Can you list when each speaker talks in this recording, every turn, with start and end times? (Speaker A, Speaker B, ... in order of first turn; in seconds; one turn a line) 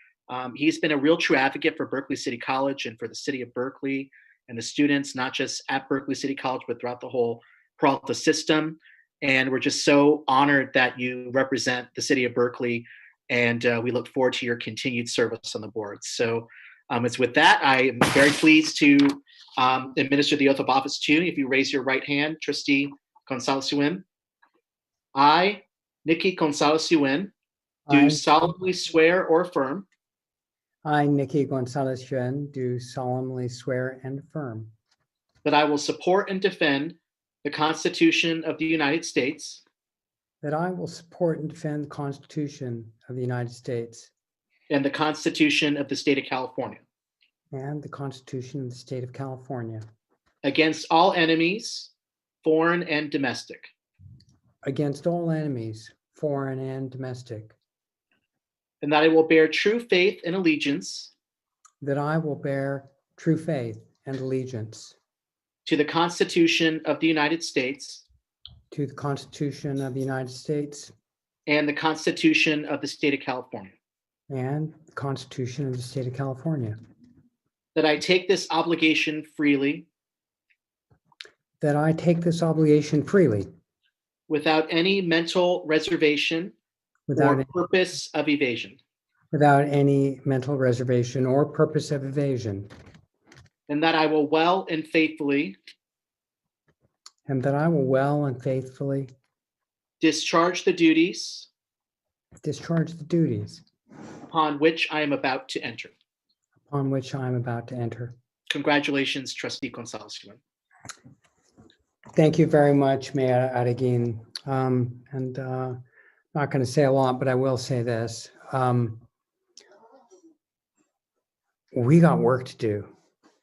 Speaker A: 0.3-24.0
Speaker A: 25.1-27.3
Speaker B: 27.9-28.2
Speaker A: 27.9-29.9
Speaker B: 30.8-34.7
Speaker A: 35.4-39.6
Speaker B: 40.4-44.1
Speaker A: 44.7-46.8
Speaker B: 47.5-49.8
Speaker A: 50.4-51.9
Speaker A: 52.4-53.7
Speaker B: 54.6-57.5
Speaker A: 58.8-61.1
Speaker B: 61.8-64.9
Speaker A: 65.7-68.0
Speaker B: 68.7-70.9
Speaker A: 71.5-73.7
Speaker B: 74.3-76.7
Speaker A: 77.7-79.8
Speaker B: 81.6-83.5
Speaker A: 84.3-86.5
Speaker B: 87.1-87.5
Speaker A: 87.2-88.8
Speaker B: 89.3-92.7
Speaker A: 93.7-95.6
Speaker B: 97.2-99.1
Speaker A: 100.0-101.5
Speaker B: 102.4-103.6
Speaker A: 104.3-105.9
Speaker B: 106.7-108.1
Speaker A: 108.5-110.4
Speaker B: 112.1-115.8
Speaker B: 116.3-119.0
Speaker B: 121.7-122.9